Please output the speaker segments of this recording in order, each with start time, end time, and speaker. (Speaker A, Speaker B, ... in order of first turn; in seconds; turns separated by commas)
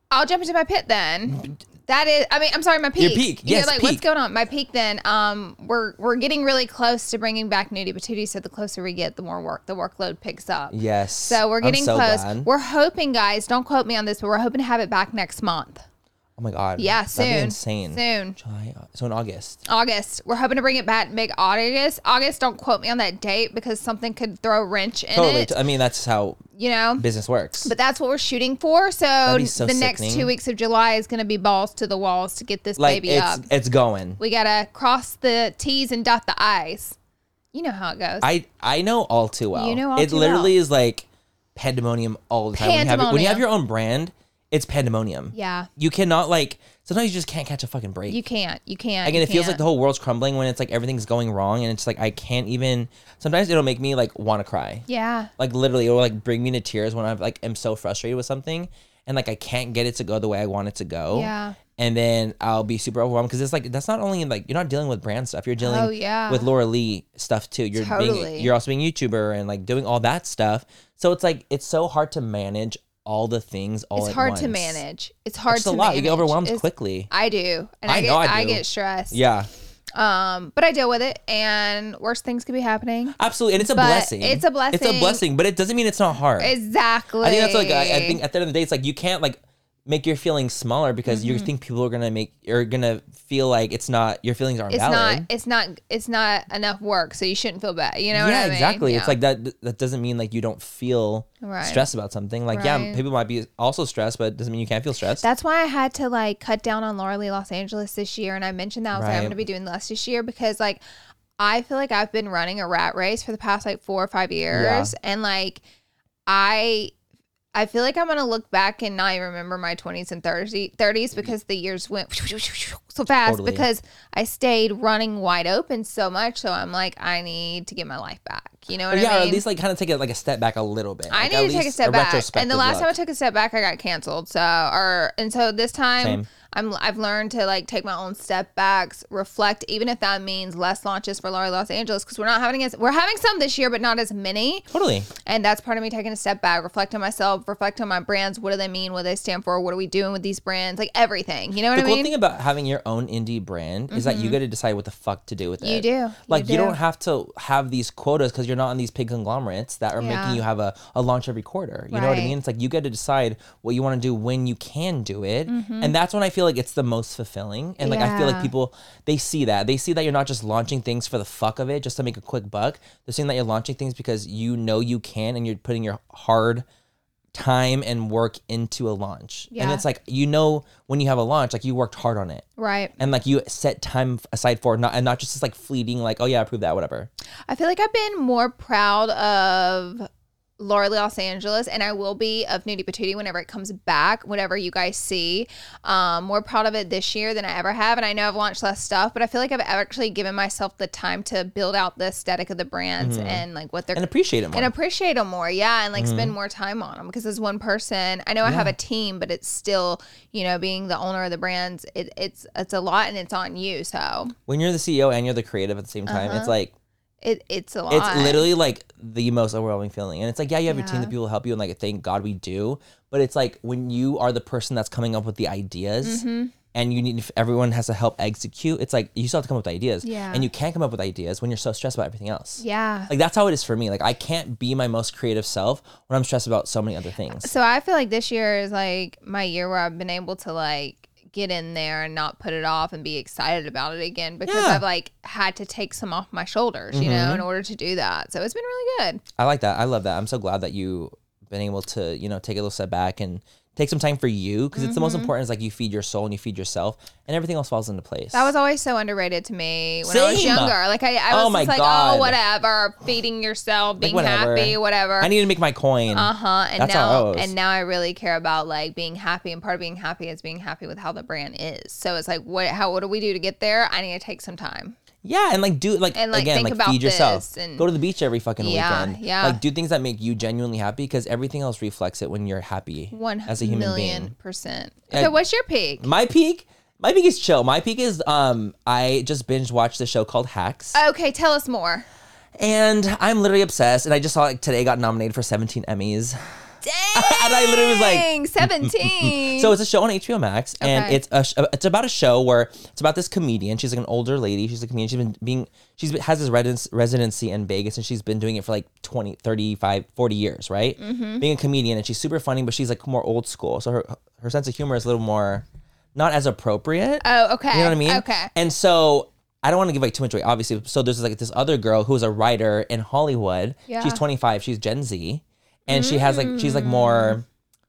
Speaker A: 0.1-15.8, Speaker B: 3.0-4.0, Speaker B: 10.7-12.5, Speaker B: 16.4-19.6, Speaker A: 16.8-18.4, Speaker A: 19.7-25.6, Speaker B: 25.1-26.4, Speaker A: 26.6-27.0, Speaker B: 27.0-27.7, Speaker A: 27.6-33.5, Speaker B: 29.2-30.3, Speaker B: 32.8-34.2, Speaker A: 34.2-37.0, Speaker A: 37.5-38.3, Speaker B: 38.2-41.0, Speaker A: 39.5-40.5, Speaker B: 41.5-48.2, Speaker A: 42.5-43.4, Speaker A: 45.3-45.7, Speaker A: 48.1-49.6, Speaker B: 49.0-54.8, Speaker A: 54.9-55.3, Speaker B: 55.4-74.8, Speaker A: 61.1-61.6, Speaker A: 65.6-66.5, Speaker A: 67.8-68.5, Speaker A: 74.0-79.2, Speaker B: 75.5-77.1, Speaker B: 77.9-79.5, Speaker A: 79.9-85.2, Speaker B: 83.2-86.5, Speaker A: 86.4-88.2, Speaker B: 87.2-95.2, Speaker A: 91.1-91.5, Speaker A: 94.7-99.2, Speaker B: 98.1-105.2, Speaker A: 101.4-101.8, Speaker A: 102.5-103.0, Speaker A: 105.2-110.8, Speaker B: 108.9-109.4, Speaker A: 111.4-115.6, Speaker B: 114.5-114.9, Speaker A: 116.3-116.9, Speaker A: 117.5-129.4, Speaker B: 123.2-123.7, Speaker B: 128.9-132.9, Speaker A: 131.1-144.7, Speaker B: 136.0-136.2, Speaker B: 144.7-145.1, Speaker A: 145.2-152.1, Speaker B: 151.7-176.6, Speaker A: 153.9-154.4, Speaker A: 155.6-156.8, Speaker A: 160.0-160.4, Speaker A: 161.9-162.3, Speaker A: 165.5-165.9, Speaker A: 167.8-168.5, Speaker B: 177.3-182.5, Speaker A: 179.5-179.8, Speaker A: 182.6-182.9, Speaker B: 183.0-187.1, Speaker A: 187.5-190.1, Speaker A: 190.6-214.3, Speaker B: 203.0-204.7, Speaker B: 205.9-206.3, Speaker B: 208.4-208.7, Speaker B: 214.5-216.7, Speaker A: 216.1-216.5, Speaker A: 217.2-218.5, Speaker B: 217.9-237.5, Speaker A: 220.7-221.1, Speaker A: 226.0-226.5, Speaker A: 230.0-230.5, Speaker A: 232.6-233.1, Speaker A: 237.4-249.2, Speaker B: 244.5-244.8, Speaker B: 246.9-247.4, Speaker B: 249.4-258.5, Speaker A: 254.7-255.3, Speaker A: 258.3-265.3, Speaker B: 260.0-260.8, Speaker B: 261.3-262.4, Speaker B: 264.0-267.5, Speaker A: 266.1-275.0, Speaker B: 275.2-284.3, Speaker A: 276.1-277.9, Speaker A: 278.6-279.6, Speaker A: 283.1-286.1, Speaker B: 286.0-290.9, Speaker A: 290.9-292.1, Speaker B: 292.6-296.4, Speaker A: 296.8-299.7, Speaker B: 297.1-327.4, Speaker A: 300.8-301.2, Speaker A: 311.0-311.4, Speaker A: 317.2-318.5, Speaker A: 323.9-324.2, Speaker A: 325.9-327.4